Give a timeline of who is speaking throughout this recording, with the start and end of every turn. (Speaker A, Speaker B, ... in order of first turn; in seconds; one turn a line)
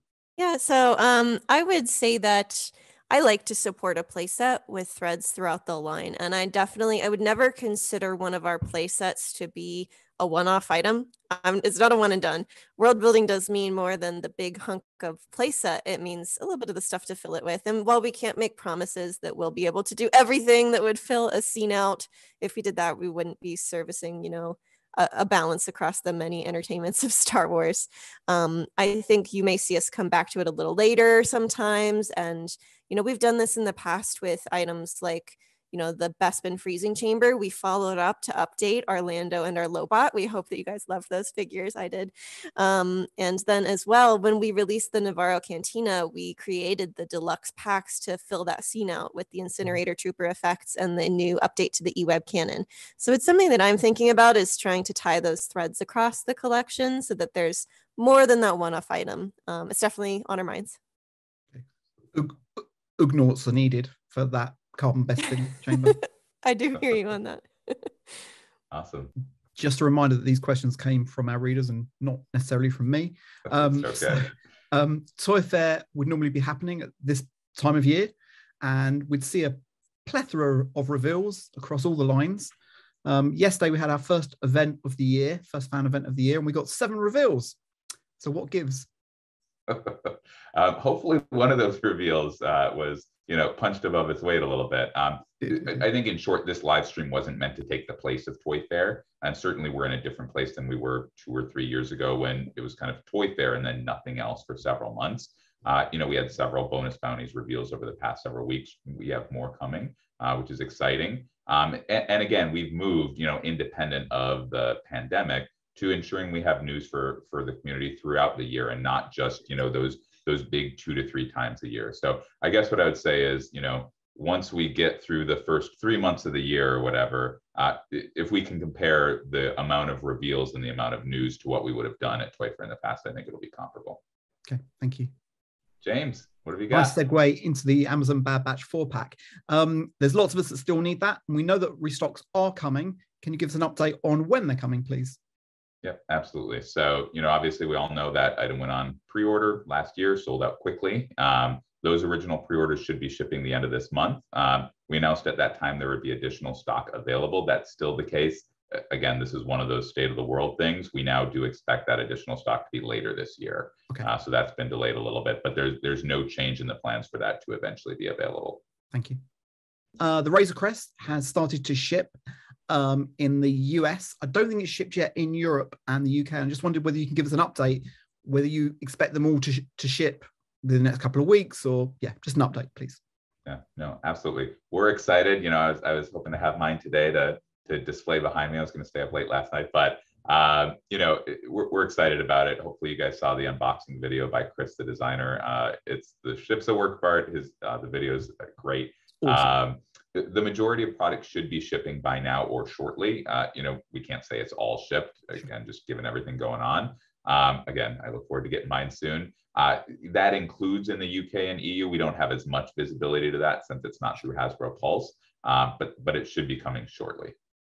Speaker A: 0.4-60.8
Speaker B: 62.1-66.0
Speaker A: 66.4-67.9
Speaker C: 68.7-69.1
Speaker B: 69.6-82.5
Speaker C: 73.5-74.3
Speaker B: 83.0-87.6
Speaker B: 88.2-88.9
Speaker C: 89.7-134.0
Speaker B: 134.5-135.1
Speaker C: 135.8-137.0
Speaker B: 136.7-145.2
Speaker C: 145.8-168.6
Speaker B: 168.9-169.2
Speaker B: 170.0-172.2
Speaker B: 172.7-183.0
Speaker C: 183.5-217.3